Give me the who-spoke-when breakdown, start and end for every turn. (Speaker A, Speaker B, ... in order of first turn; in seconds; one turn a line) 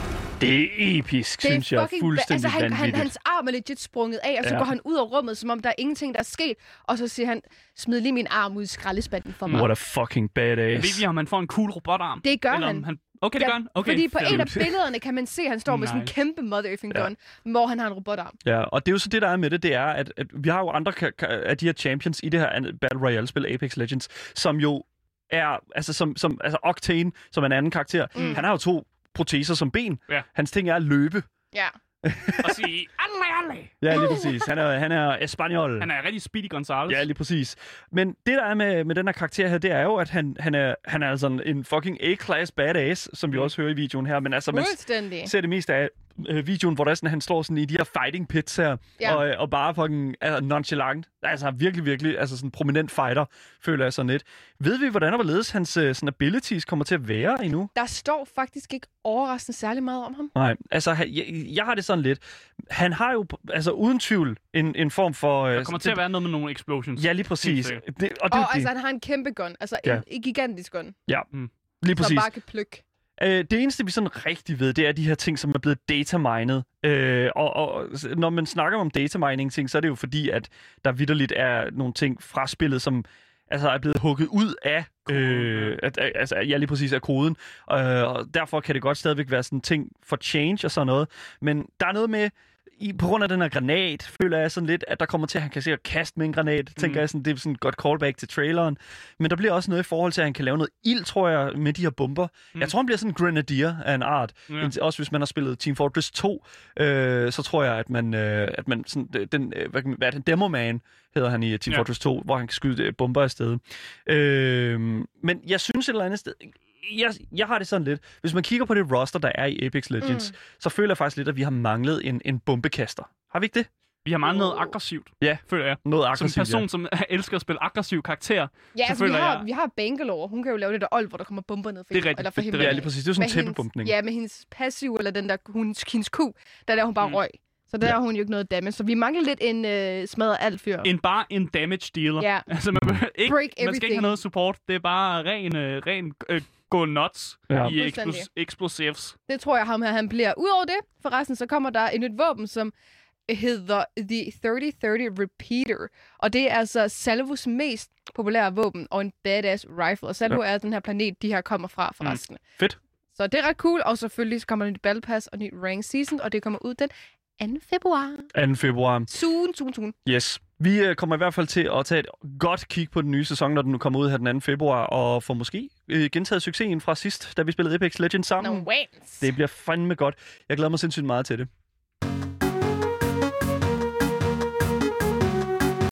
Speaker A: 0.4-3.1
Speaker B: 1.4-9.7
Speaker A: 4.4-4.7
Speaker A: 9.5-11.1
Speaker C: 10.7-14.5
Speaker B: 12.2-12.9
Speaker B: 13.4-18.4
Speaker A: 14.2-14.7
Speaker C: 15.7-16.1
Speaker A: 18.4-31.3
Speaker B: 28.1-28.4
Speaker C: 28.2-28.4
Speaker A: 32.0-32.6
Speaker C: 32.4-33.7
Speaker A: 33.8-35.9
Speaker B: 34.0-34.2
Speaker C: 35.8-37.1
Speaker A: 36.9-57.7
Speaker B: 44.5-45.3
Speaker B: 57.8-60.3
Speaker A: 60.4-66.0
Speaker C: 65.5-67.8
Speaker A: 67.0-68.7
Speaker B: 68.3-71.0
Speaker A: 71.8-72.3
Speaker B: 72.0-72.8
Speaker A: 73.2-123.7
Speaker C: 85.1-85.8
Speaker C: 96.8-97.0
Speaker B: 120.0-120.3
Speaker C: 124.0-129.5
Speaker B: 124.3-124.7
Speaker A: 125.2-126.7
Speaker B: 128.8-140.9
Speaker C: 131.9-132.8
Speaker A: 132.5-133.9
Speaker C: 140.8-149.2
Speaker B: 142.2-142.5
Speaker B: 143.3-144.1
Speaker A: 147.5-147.8
Speaker B: 147.6-148.3
Speaker B: 149.3-152.7
Speaker B: 153.3-162.4
Speaker A: 162.0-162.8
Speaker B: 163.1-168.3
Speaker A: 168.3-169.1
Speaker B: 169.1-169.9
Speaker A: 170.1-178.7
Speaker B: 178.4-179.2
Speaker A: 179.2-181.5